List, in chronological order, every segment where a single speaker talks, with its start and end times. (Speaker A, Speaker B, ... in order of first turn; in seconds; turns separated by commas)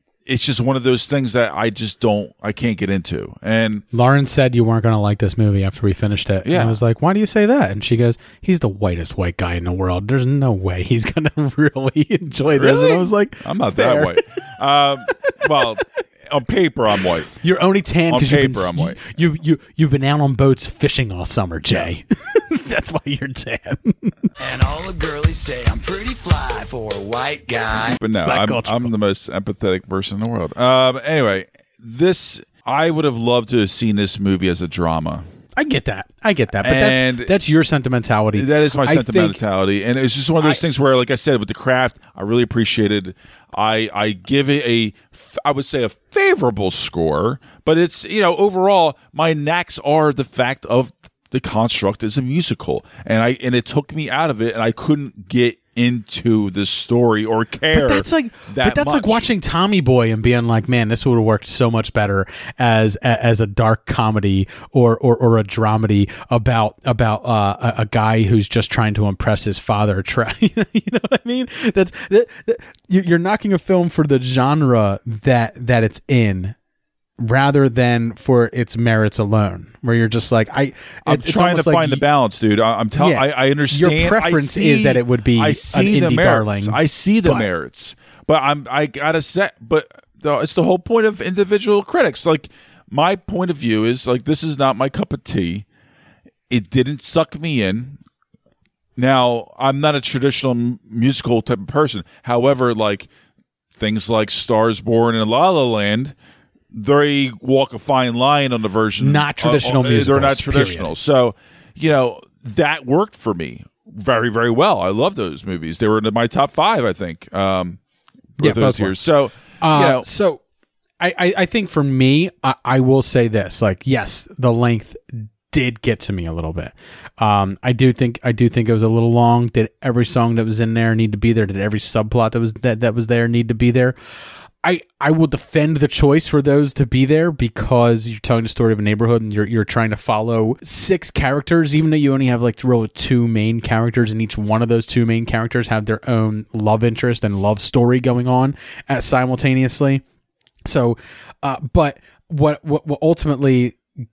Speaker A: 0.3-3.8, Speaker B: 3.9-14.2, Speaker A: 6.5-6.8, Speaker A: 12.5-17.3, Speaker B: 17.4-24.1, Speaker A: 18.1-19.0, Speaker C: 24.4-28.0, Speaker A: 28.0-35.2, Speaker B: 28.1-28.9, Speaker B: 35.6-39.4, Speaker A: 36.6-37.4, Speaker A: 38.3-59.2, Speaker B: 57.7-76.6, Speaker B: 77.2-82.0, Speaker A: 81.1-95.7, Speaker B: 83.0-87.5, Speaker A: 96.5-98.0, Speaker A: 99.0-103.1, Speaker A: 103.8-106.2, Speaker A: 106.7-117.8, Speaker B: 109.0-110.9, Speaker B: 118.4-119.0, Speaker A: 118.4-120.1, Speaker B: 119.6-120.4, Speaker B: 121.0-134.0, Speaker B: 134.6-150.0, Speaker B: 150.7-153.8